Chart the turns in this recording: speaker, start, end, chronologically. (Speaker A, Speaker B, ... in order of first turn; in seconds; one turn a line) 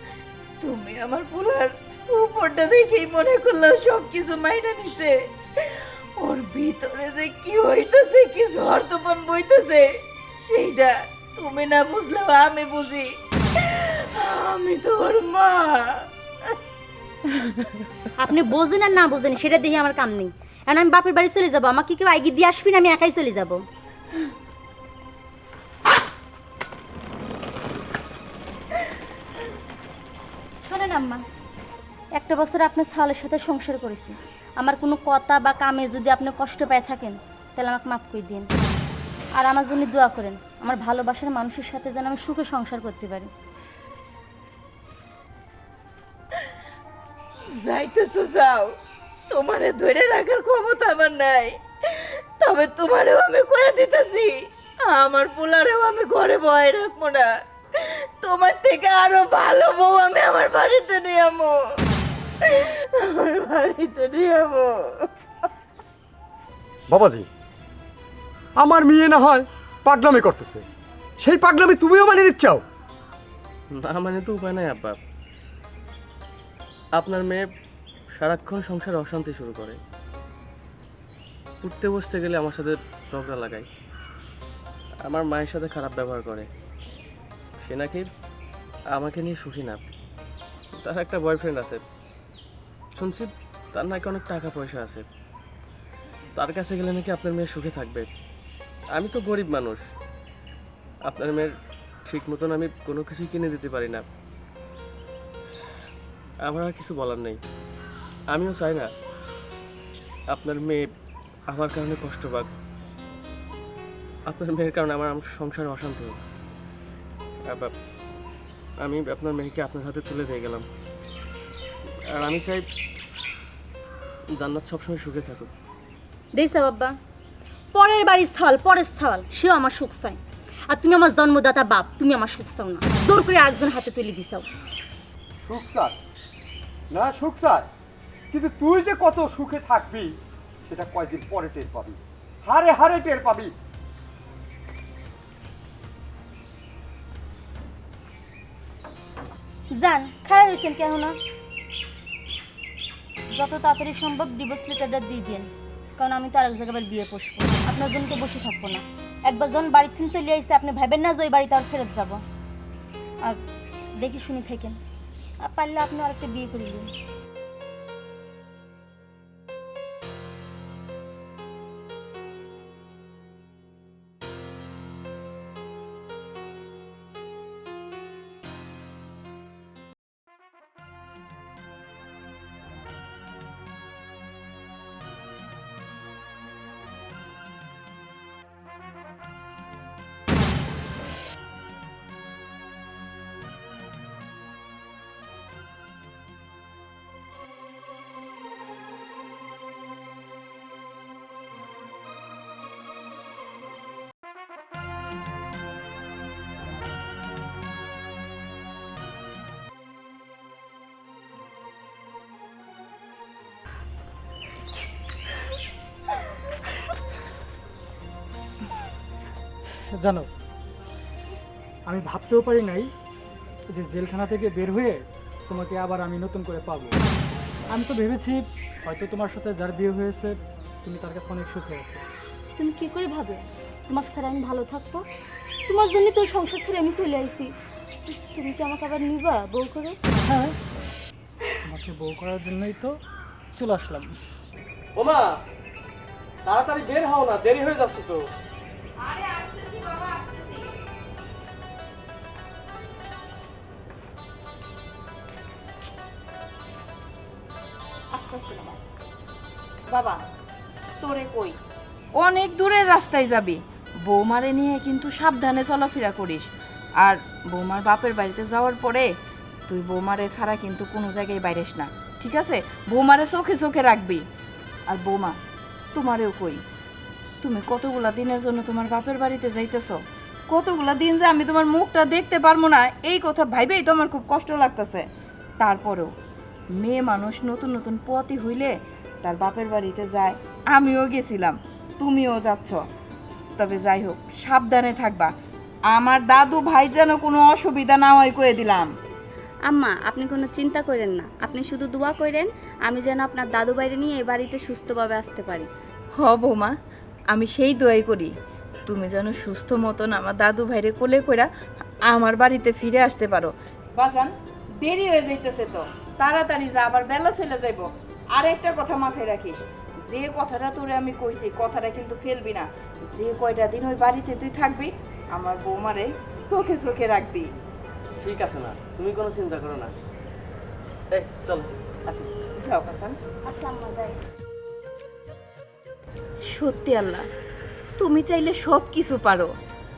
Speaker A: 0.6-9.8
Speaker A: 10.4-16.0
Speaker A: 17.3-17.7
Speaker B: 18.2-23.6
Speaker B: 30.6-31.2
Speaker B: 32.2-38.5
Speaker B: 39.4-43.3
Speaker A: 47.5-48.7
Speaker A: 49.3-54.3
Speaker A: 54.9-61.6
Speaker A: 62.4-65.5
Speaker C: 66.9-67.3
Speaker C: 68.6-70.6
Speaker C: 71.2-72.6
Speaker D: 73.7-75.0
Speaker D: 77.0-77.4
Speaker D: 78.2-79.8
Speaker D: 81.6-83.7
Speaker D: 85.1-86.5
Speaker D: 87.6-88.1
Speaker D: 88.9-89.8
Speaker D: 90.8-91.8
Speaker D: 93.0-95.0
Speaker D: 96.3-98.1
Speaker D: 98.9-99.8
Speaker D: 101.1-101.5
Speaker D: 102.1-104.0
Speaker D: 106.5-107.4
Speaker D: 108.3-108.9
Speaker D: 110.3-110.9
Speaker D: 111.5-112.5
Speaker D: 114.3-116.2
Speaker D: 118.8-120.6
Speaker D: 122.1-122.6
Speaker D: 124.4-125.5
Speaker B: 126.3-127.0
Speaker B: 127.7-134.5
Speaker C: 135.4-135.9
Speaker C: 136.9-137.7
Speaker C: 138.3-140.1
Speaker C: 140.7-143.5
Speaker B: 149.7-151.2
Speaker B: 153.3-162.2
Speaker B: 163.9-164.8
Speaker B: 165.4-166.9
Speaker E: 219.9-220.3
Speaker E: 221.9-222.9
Speaker E: 223.7-227.0
Speaker E: 227.7-232.0
Speaker B: 232.6-235.0
Speaker B: 235.7-237.5
Speaker B: 238.1-239.9
Speaker E: 240.2-240.6
Speaker E: 241.7-242.9
Speaker E: 243.6-244.2
Speaker D: 245.0-245.3
Speaker D: 246.4-248.2
Speaker A: 249.0-250.7
Speaker A: 258.1-258.8
Speaker A: 259.9-260.2
Speaker A: 261.0-261.6
Speaker A: 262.2-266.4
Speaker A: 267.0-269.1
Speaker A: 269.7-274.2
Speaker A: 274.9-275.3
Speaker A: 275.9-276.6
Speaker A: 277.4-280.0
Speaker A: 280.5-285.1
Speaker A: 285.6-286.1
Speaker A: 286.8-288.7
Speaker A: 289.2-292.8
Speaker A: 293.6-295.3
Speaker A: 295.9-298.9
Speaker F: 299.7-305.7
Speaker A: 306.1-306.7
Speaker A: 307.3-308.3
Speaker A: 308.9-311.5
Speaker A: 312.1-327.5
Speaker D: 328.2-329.9
Speaker D: 331.1-331.7
Speaker A: 332.1-333.1
Speaker B: 333.4-334.1
Speaker A: 336.5-337.3
Speaker A: 338.0-339.5